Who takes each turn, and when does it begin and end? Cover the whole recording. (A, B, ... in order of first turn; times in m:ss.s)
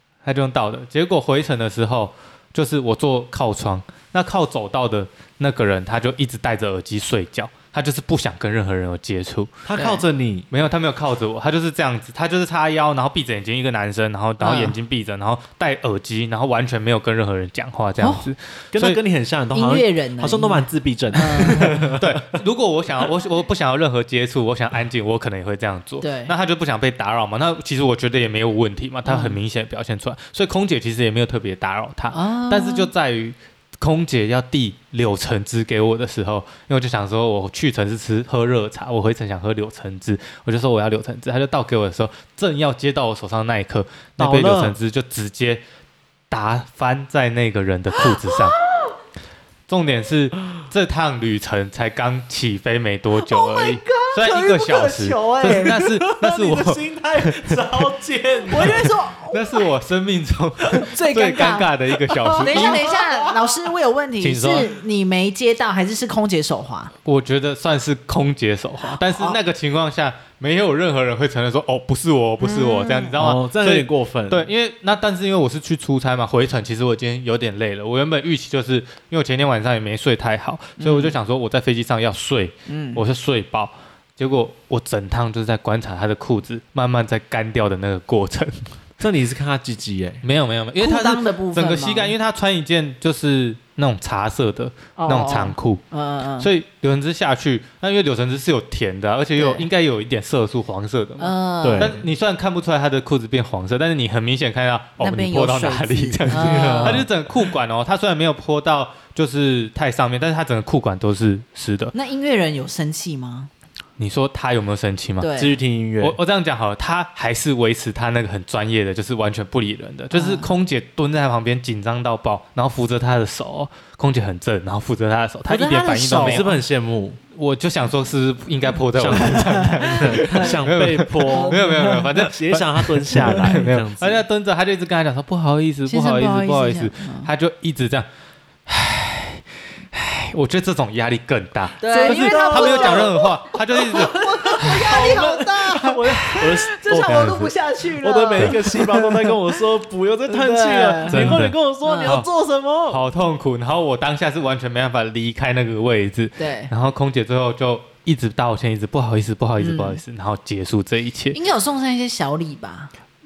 0:00.2-0:09.5 A
0:09.7-0:10.5 B
0:09.8-0:10.0 C
0:10.5-0:19.0 A
0:14.4-0:14.8 C
0:18.0-0:18.3 C
0:18.7-0:22.0 B
0:19.5-0:21.9 C
0:21.4-0:45.6 A
0:26.0-0:26.4 C
0:29.0-0:29.4 C
0:32.1-0:32.9 C
0:44.2-0:44.8 B
0:46.3-0:48.6 A
0:49.7-0:57.9 A
0:53.2-0:55.8 C
0:55.7-0:58.9 B
0:58.5-0:59.7 C
0:58.6-1:02.8 A
1:00.8-1:01.7 C
1:02.1-1:03.0 B
1:02.4-1:06.9 C
1:04.2-1:04.8 A
1:07.0-1:28.7 A
1:08.8-1:09.4 C
1:12.4-1:13.2 C
1:13.2-1:14.5 B
1:20.8-1:21.2 C
1:22.7-1:23.0 C
1:29.0-1:30.2 B
1:30.2-1:35.8 A
1:30.8-1:32.2 C
1:35.0-1:36.5 C
1:36.4-1:51.9 A
1:39.4-1:39.7 C
1:41.2-1:41.9 C
1:41.6-1:42.0 B
1:45.0-1:47.1 C
1:46.3-1:47.1 B
1:51.9-1:53.5 C
1:54.0-1:55.3 A
1:55.2-1:55.6 C
1:55.4-1:56.2 B
1:56.0-2:06.5 A
2:00.1-2:00.5 C
2:05.5-2:06.5 C
2:06.2-2:07.2 B
2:07.3-2:18.1 A
2:08.9-2:14.2 B
2:09.2-2:10.6 C
2:11.3-2:12.1 C
2:13.2-2:13.6 C
2:15.9-2:17.3 C
2:18.7-2:24.8 A
2:21.8-2:29.1 C
2:21.9-2:23.2 B
2:24.4-2:27.4 B
2:26.9-2:27.5 A
2:28.0-2:33.0 B
2:30.3-2:32.2 C
2:31.1-2:32.3 A
2:32.9-2:41.4 A
2:36.4-2:36.7 C
2:39.6-2:40.0 C
2:41.3-2:42.9 C